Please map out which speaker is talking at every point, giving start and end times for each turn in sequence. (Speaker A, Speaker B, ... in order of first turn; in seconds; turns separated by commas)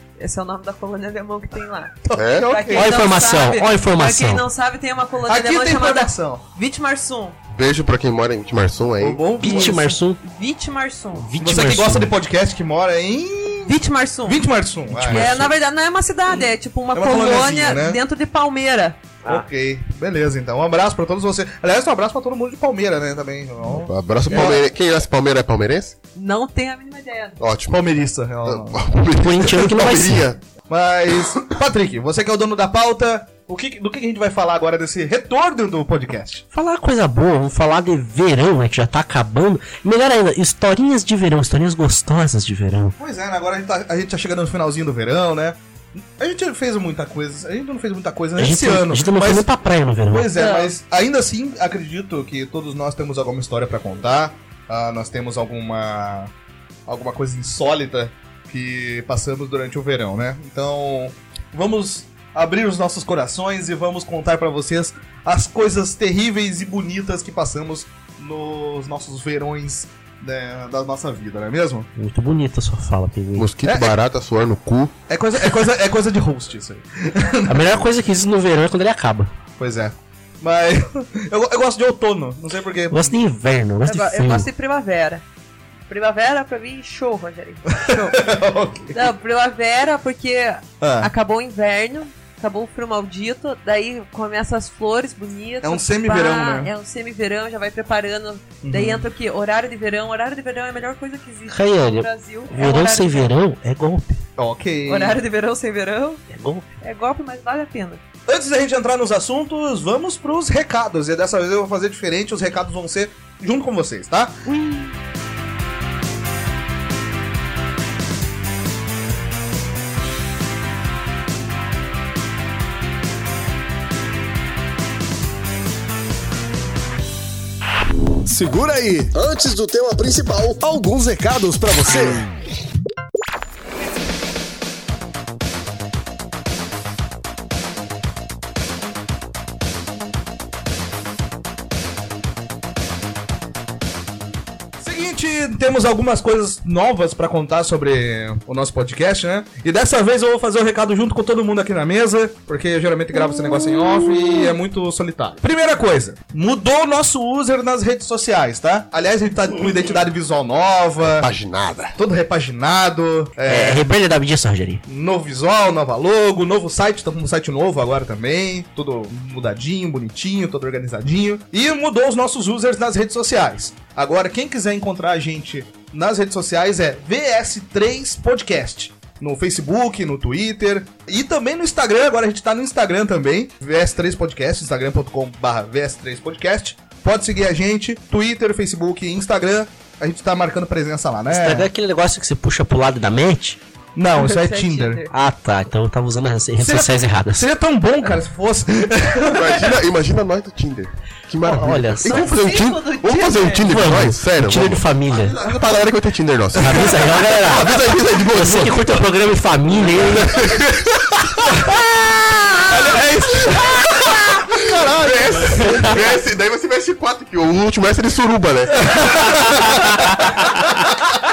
Speaker A: 0.2-7.4, Speaker B: 2.0-2.9, Speaker C: 2.1-2.6, Speaker D: 2.7-4.5, Speaker B: 5.2-6.4, Speaker C: 7.5-9.2, Speaker B: 9.0-9.9, Speaker D: 9.4-10.2, Speaker A: 10.2-11.3, Speaker D: 11.1-12.1, Speaker B: 11.4-13.7, Speaker A: 13.7-14.4, Speaker B: 14.2-15.5, Speaker D: 15.0-15.5, Speaker A: 15.0-19.1, Speaker B: 16.9-18.0, Speaker B: 19.2-24.6, Speaker C: 23.6-25.9, Speaker A: 26.1-27.4, Speaker C: 27.4-27.9, Speaker B: 27.7-28.8, Speaker C: 28.4-30.4, Speaker D: 29.2-30.3, Speaker B: 30.7-36.4, Speaker D: 36.5-43.0, Speaker B: 43.0-45.6, Speaker B: 46.2-49.5, Speaker D: 48.4-50.4, Speaker B: 50.1-56.3, Speaker A: 50.3-50.7, Speaker B: 56.9-71.9, Speaker D: 72.0-73.5, Speaker C: 73.4-74.9, Speaker B: 73.6-73.9, Speaker B: 75.1-77.8, Speaker D: 77.5-79.3, Speaker B: 79.6-83.2, Speaker D: 82.9-84.5, Speaker A: 83.8-85.2, Speaker A: 85.9-88.3, Speaker B: 87.7-89.1, Speaker A: 88.9-103.3, Speaker B: 90.8-91.1, Speaker B: 95.6-96.7, Speaker B: 98.6-99.1, Speaker D: 101.5-104.2, Speaker B: 104.4-105.2, Speaker A: 104.9-106.2, Speaker D: 106.3-106.7, Speaker A: 106.8-108.0, Speaker B: 108.3-114.4, Speaker A: 114.5-114.9, Speaker E: 128.2-132.3, Speaker B: 144.8-161.3, Speaker C: 161.0-161.9, Speaker B: 161.9-163.9, Speaker D: 163.5-164.8, Speaker B: 164.8-191.7, Speaker D: 191.3-193.6, Speaker B: 193.9-195.0, Speaker A: 194.2-195.1, Speaker D: 195.1-197.5, Speaker B: 196.6-199.8, Speaker C: 199.2-209.0, Speaker D: 201.4-202.3, Speaker A: 202.0-203.7, Speaker D: 203.6-205.3, Speaker D: 206.6-210.5, Speaker B: 206.6-206.9, Speaker B: 207.5-207.8, Speaker C: 209.9-211.8, Speaker B: 212.7-216.0, Speaker C: 213.3-219.8, Speaker B: 218.8-220.9